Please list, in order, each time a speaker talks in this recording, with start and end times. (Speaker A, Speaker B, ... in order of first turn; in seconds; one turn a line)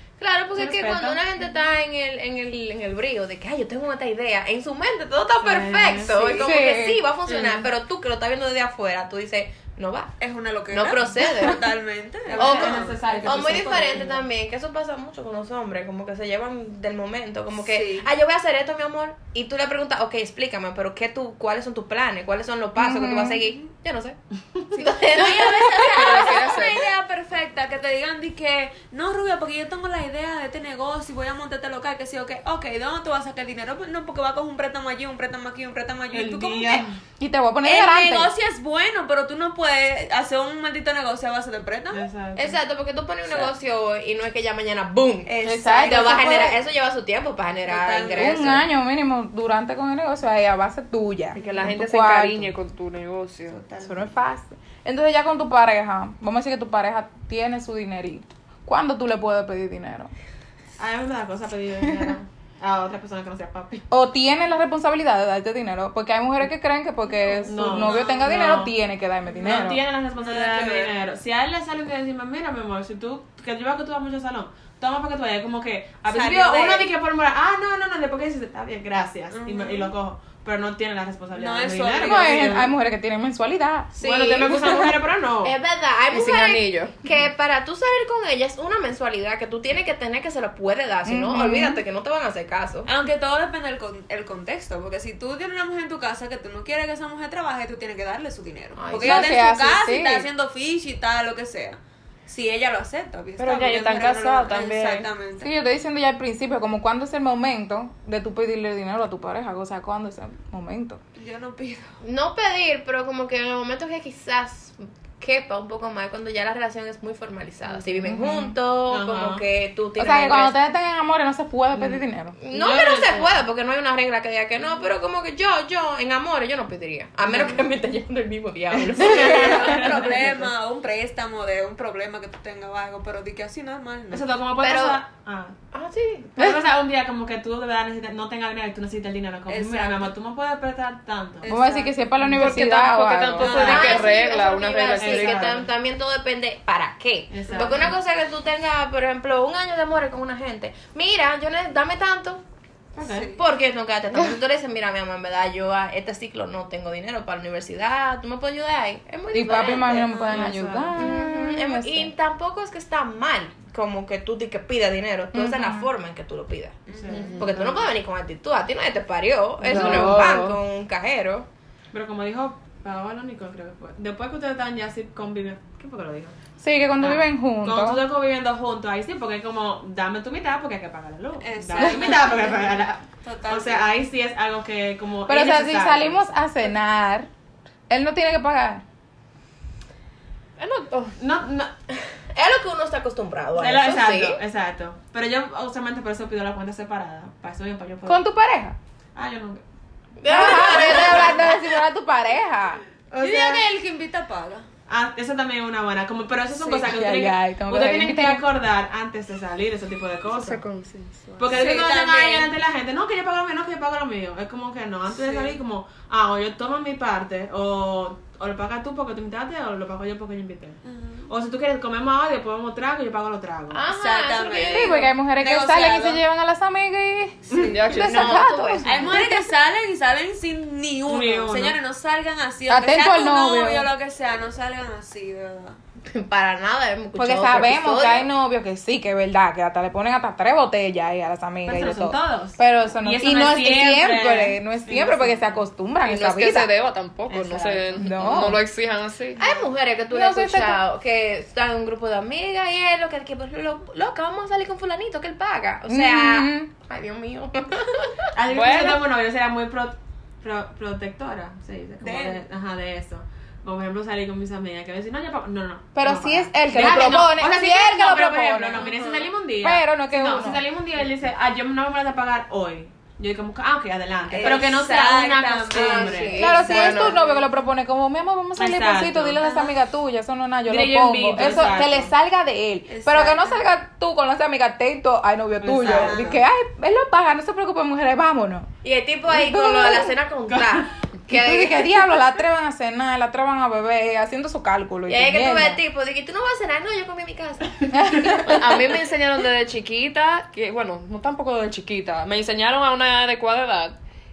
Speaker A: 0.2-10.1
Speaker B: 0.5-1.2
Speaker B: 5.4-6.4
Speaker C: 6.4-7.0
Speaker D: 10.2-14.1
Speaker A: 10.7-11.6
Speaker B: 12.2-14.2
Speaker A: 12.4-24.2
Speaker D: 17.6-18.1
Speaker C: 22.8-23.4
Speaker A: 24.7-26.8
Speaker D: 25.1-36.9
Speaker E: 25.9-26.8
Speaker B: 36.1-37.0
Speaker C: 37.2-38.3
Speaker D: 37.6-42.0
Speaker B: 41.9-42.6
Speaker A: 42.4-48.6
Speaker D: 45.2-46.6
Speaker C: 45.4-46.5
Speaker D: 47.7-48.6
Speaker C: 48.1-52.5
Speaker E: 51.3-53.6
Speaker D: 51.4-51.7
Speaker D: 53.5-54.1
Speaker C: 53.8-60.1
Speaker B: 60.8-63.9
Speaker C: 63.9-69.8
Speaker B: 67.5-68.7
Speaker D: 67.7-68.3
Speaker B: 69.3-82.7
Speaker D: 70.2-70.9
Speaker D: 76.1-76.9
Speaker D: 79.3-79.9
Speaker D: 81.3-82.7
Speaker C: 82.0-84.9
Speaker A: 84.0-84.9
Speaker B: 84.0-85.5
Speaker A: 85.4-92.9
Speaker E: 86.1-87.0
Speaker C: 91.0-91.8
Speaker D: 92.8-105.5
Speaker A: 98.8-99.4
Speaker C: 99.0-100.3
Speaker E: 103.4-105.1
Speaker C: 105.4-111.0
Speaker D: 111.2-112.0
Speaker A: 112.0-120.5
Speaker C: 118.0-118.5
Speaker B: 118.9-119.4
Speaker C: 120.0-122.3
Speaker A: 122.4-130.5
Speaker B: 122.5-123.4
Speaker B: 127.3-127.6
Speaker B: 128.9-130.2
Speaker D: 129.0-134.2
Speaker B: 134.1-135.6
Speaker A: 134.6-135.0
Speaker A: 135.7-136.4
Speaker B: 136.3-141.4
Speaker D: 139.5-140.1
Speaker D: 141.4-141.9
Speaker C: 141.5-143.8
Speaker B: 142.2-142.6
Speaker E: 142.3-145.6
Speaker B: 143.4-144.1
Speaker D: 143.4-144.1
Speaker A: 143.4-152.4
Speaker B: 145.0-145.7
Speaker B: 147.3-147.9
Speaker B: 152.9-153.3
Speaker D: 153.0-153.4
Speaker A: 153.3-160.2
Speaker C: 159.3-162.1
Speaker D: 160.1-160.5
Speaker B: 160.3-161.0
Speaker A: 160.9-166.8
Speaker C: 165.3-165.9
Speaker D: 166.9-167.6
Speaker B: 166.9-167.7
Speaker E: 167.1-167.5
Speaker A: 167.4-171.5
Speaker E: 169.7-170.6
Speaker C: 169.7-170.4
Speaker B: 169.7-170.2
Speaker B: 171.9-176.3
Speaker C: 176.6-178.0
Speaker B: 177.0-186.3
Speaker D: 181.4-183.9
Speaker C: 181.8-182.2
Speaker C: 185.3-187.3
Speaker C: 187.9-188.8
Speaker E: 190.6-191.1
Speaker B: 191.2-191.7
Speaker A: 192.3-194.4
Speaker B: 193.6-198.2
Speaker C: 198.1-198.8
Speaker B: 199.2-199.6
Speaker A: 200.2-201.6
Speaker C: 200.2-202.8
Speaker B: 200.6-201.2
Speaker D: 203.1-204.7
Speaker B: 203.2-203.7
Speaker B: 204.9-210.6
Speaker C: 206.5-208.4
Speaker E: 210.3-211.6
Speaker B: 211.4-223.8
Speaker D: 211.4-212.5
Speaker D: 215.1-215.6
Speaker D: 220.8-221.3
Speaker A: 223.7-225.1
Speaker D: 223.9-226.2
Speaker C: 224.7-229.5
Speaker D: 227.5-227.9
Speaker E: 227.6-228.5
Speaker A: 228.0-229.1
Speaker D: 228.8-235.8
Speaker B: 231.1-231.8
Speaker C: 232.7-233.9
Speaker A: 236.1-238.3
Speaker C: 237.2-246.7
Speaker B: 241.6-245.6
Speaker E: 246.0-249.4
Speaker B: 247.3-248.5
Speaker C: 248.0-248.6
Speaker A: 249.4-258.3
Speaker C: 250.1-250.8
Speaker C: 255.9-256.7
Speaker B: 258.3-277.1
Speaker E: 258.5-259.0
Speaker D: 262.0-262.4
Speaker C: 265.9-268.9
Speaker A: 268.8-269.3
Speaker C: 269.6-270.6
Speaker D: 274.3-277.4
Speaker A: 274.4-274.8
Speaker A: 275.7-277.1
Speaker C: 276.4-288.7
Speaker E: 276.5-277.1
Speaker B: 278.6-279.4
Speaker D: 279.4-279.7
Speaker B: 280.6-282.1
Speaker D: 282.9-283.6
Speaker B: 285.6-286.3
Speaker D: 285.8-286.4
Speaker A: 288.8-291.9
Speaker C: 289.3-290.1
Speaker B: 290.5-290.9
Speaker C: 291.3-295.8
Speaker A: 295.1-297.9
Speaker C: 297.9-298.8
Speaker E: 298.4-303.9